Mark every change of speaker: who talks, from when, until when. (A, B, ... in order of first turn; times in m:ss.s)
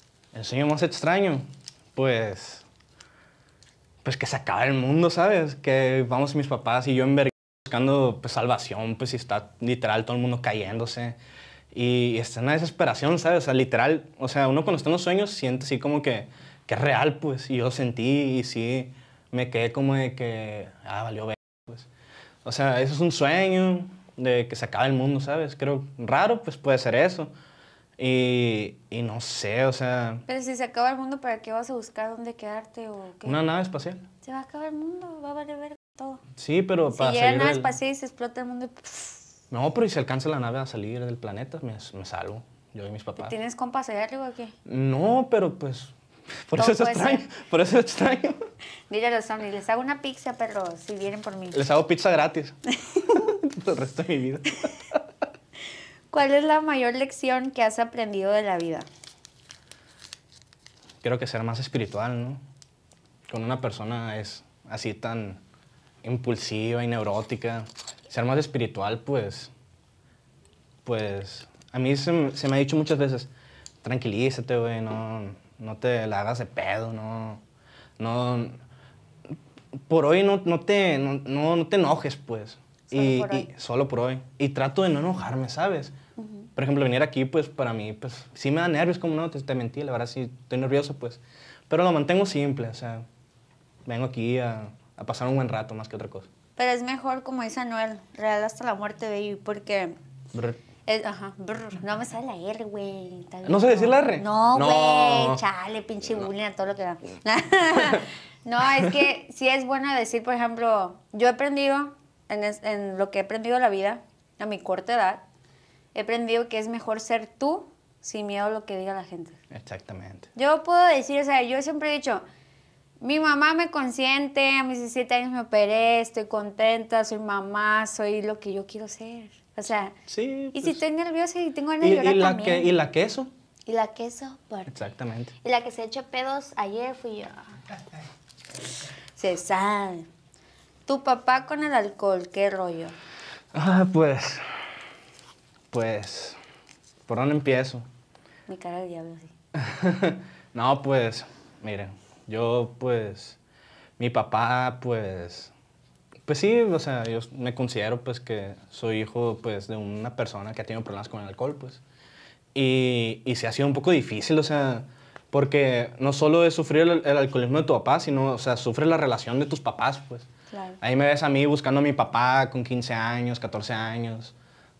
0:00.3-0:01.4 A
0:02.0-0:02.7 A
0:04.0-0:11.2 A
0:11.7-0:21.9 A
0:22.4-0:27.3 A
0:28.0-0:30.2 A
0:30.3-0:33.4 B
0:33.2-0:34.0 A
0:34.2-0:36.2 B
0:36.4-0:37.8 A
0:36.9-0:39.3 B
0:39.5-0:43.3 A
0:43.2-0:44.5 B
0:44.7-0:45.9 A
0:46.5-0:48.4 A
0:46.6-0:47.3 B
0:48.9-0:51.6 B
0:51.5-0:55.0 A
0:56.1-0:58.9 B
1:01.0-1:02.4 A
1:03.3-1:05.4 A
1:06.0-1:09.5 A
1:10.8-1:13.3 A
1:13.8-1:17.4 A
1:18.0-1:18.6 A
1:19.9-1:25.9 A
1:22.9-1:23.5 B
1:26.2-1:26.5 B
1:26.6-1:33.0 A
1:33.8-1:36.3 A
1:36.6-1:39.9 B
1:40.3-1:40.6 A
1:40.9-1:55.2 B
1:43.4-1:45.4 A
1:55.9-1:59.4 B
1:59.5-2:00.3 A
2:00.3-2:02.2 B
2:03.0-2:10.0 B
2:10.1-2:10.8 A
2:10.5-2:12.7 B
2:11.8-2:13.3 A
2:13.7-2:14.7 B
2:14.7-2:15.3 A
2:15.4-2:17.5 B
2:19.2-2:20.1 B
2:20.8-2:23.0 B
2:23.5-2:24.4 A
2:25.7-2:26.4 A
2:27.1-2:27.8 A
2:28.5-2:29.3 B
2:29.5-2:33.4 A
2:34.0-2:35.5 A
2:36.2-2:41.8 A
2:42.5-2:50.3 A
2:50.5-2:50.8 B
2:50.8-2:54.3 A